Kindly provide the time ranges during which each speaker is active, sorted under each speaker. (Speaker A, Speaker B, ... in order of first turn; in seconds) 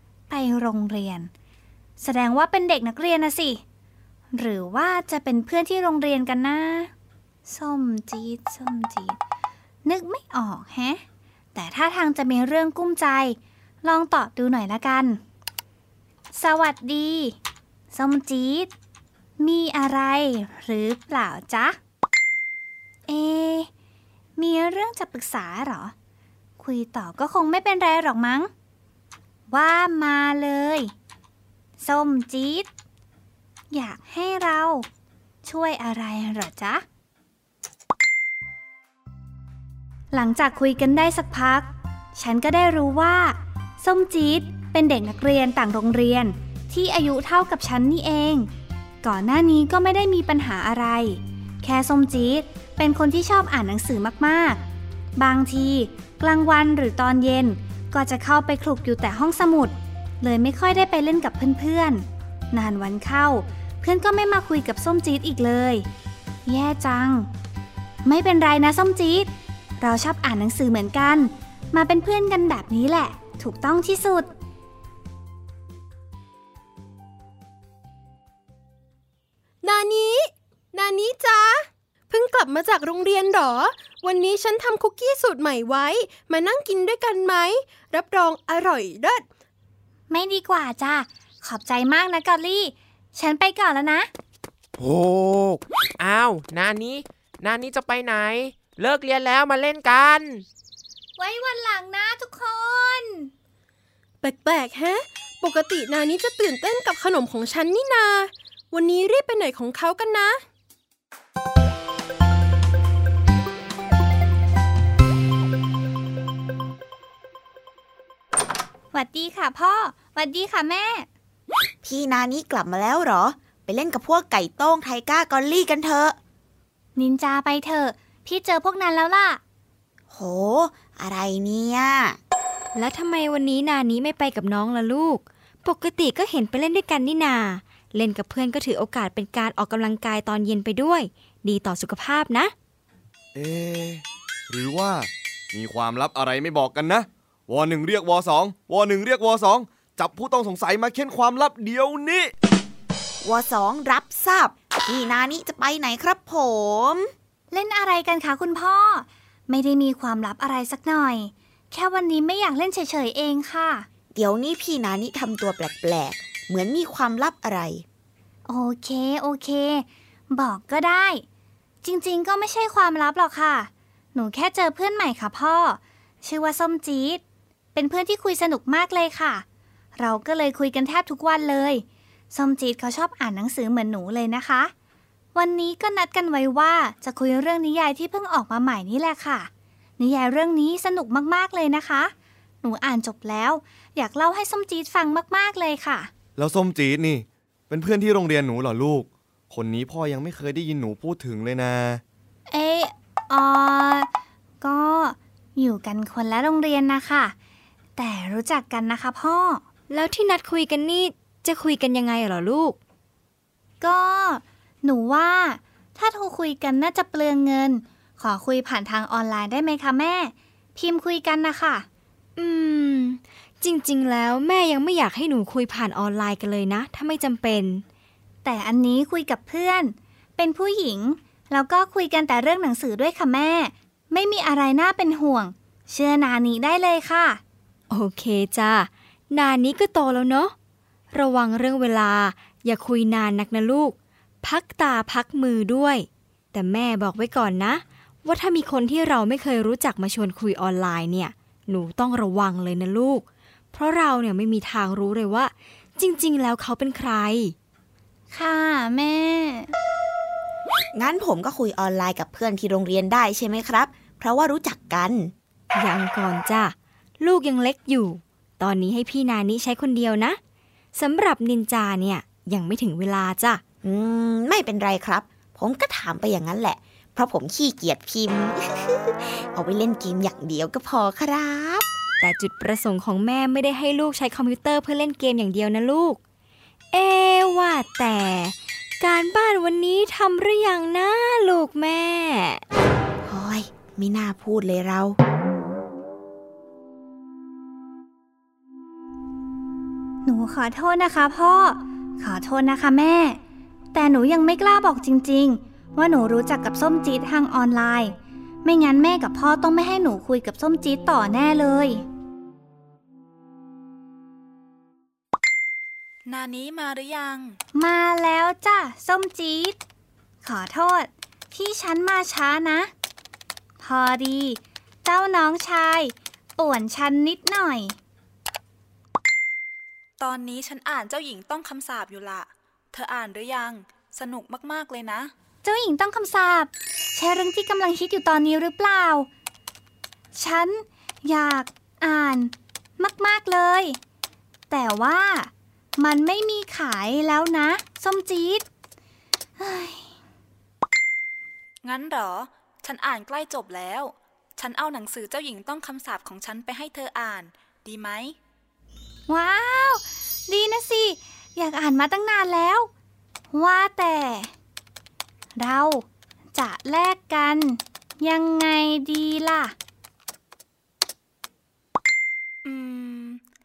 Speaker A: 0.3-1.3, 2.0-3.6, 4.3-6.9, 7.5-9.2, 9.8-11.0, 11.5-15.2, 16.3-17.4, 17.9-18.7, 19.4-21.8, 23.1-23.7, 24.4-25.9, 26.6-28.5, 29.5-30.9, 31.8-32.7, 33.7-34.9, 35.4-36.8, 40.1-48.5, 49.0-54.6, 55.2-65.9, 66.5-67.3, 68.0-74.3, 90.1-94.1, 101.2-103.3, 118.9-121.1, 127.0-129.4, 157.5-163.9, 168.5-171.2, 171.8-177.2, 177.7-179.4, 179.9-184.7, 185.3-196.1, 202.5-204.1, 204.6-207.3, 207.9-209.6, 213.8-221.8, 228.4-237.4, 258.3-259.7, 300.2-303.4, 303.9-312.0, 317.7-319.8, 320.4-322.9, 323.8-328.0, 335.6-339.3, 340.3-344.0, 344.7-348.6, 349.6-350.1, 359.3-362.9, 363.5-364.5, 365.6-369.7
Speaker B: 79.6-89.2, 104.2-110.4
Speaker C: 94.8-100.4
Speaker D: 121.8-126.2, 130.1-132.2, 153.2-157.1, 164.1-167.8, 260.9-265.3, 273.8-281.8, 293.2-295.2
Speaker E: 132.7-142.5, 209.9-212.8, 222.4-227.8, 237.9-240.5, 241.1-257.5, 265.7-270.4, 270.9-273.6, 282.2-286.2, 286.9-292.6
Speaker F: 143.3-152.3, 196.3-202.0
Speaker G: 316.2-317.6, 330.2-335.3, 351.8-358.4, 372.6-373.4